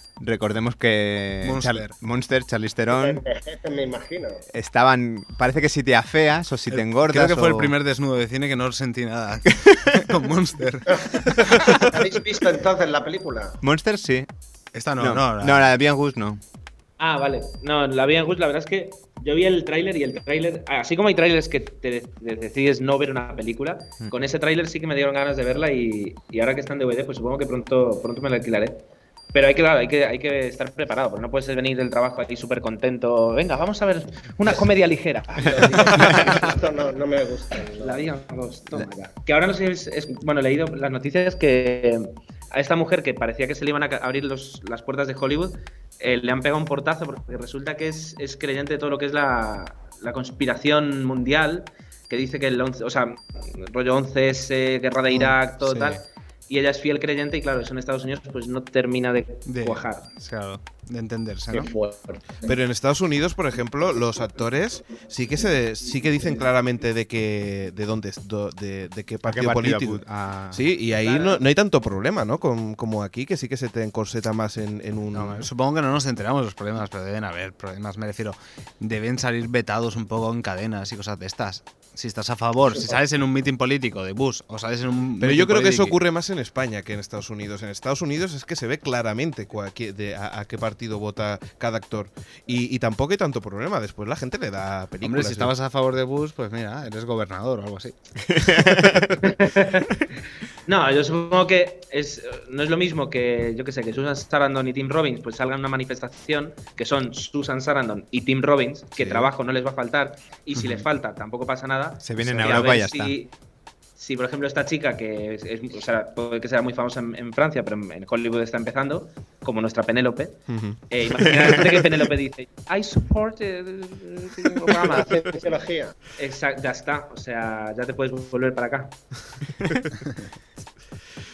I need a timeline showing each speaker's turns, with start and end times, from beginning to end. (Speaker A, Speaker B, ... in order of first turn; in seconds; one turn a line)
Speaker A: 0.2-3.2
Speaker B: 1.4-1.9
Speaker C: 2.9-4.4
Speaker A: 4.5-7.7
Speaker B: 6.7-11.9
Speaker C: 11.7-13.6
Speaker A: 13.6-14.3
Speaker B: 14.7-15.7
Speaker A: 15.0-16.4
Speaker D: 17.0-28.8
Speaker D: 29.3-36.6
Speaker C: 35.4-38.1
Speaker D: 37.8-60.1
Speaker B: 55.1-56.0
Speaker B: 59.5-61.7
Speaker C: 61.5-62.2
Speaker E: 62.4-75.5
Speaker A: 69.3-70.6
Speaker D: 71.0-71.4
Speaker B: 75.1-86.0
Speaker E: 85.2-95.5
Speaker B: 95.0-97.9
Speaker A: 98.4-99.1
Speaker D: 99.2-99.9
Speaker D: 100.7-113.3
Speaker E: 109.0-109.2
Speaker A: 112.0-113.1
Speaker D: 114.0-125.2
Speaker E: 120.5-120.8
Speaker C: 124.7-125.9
Speaker D: 126.2-129.0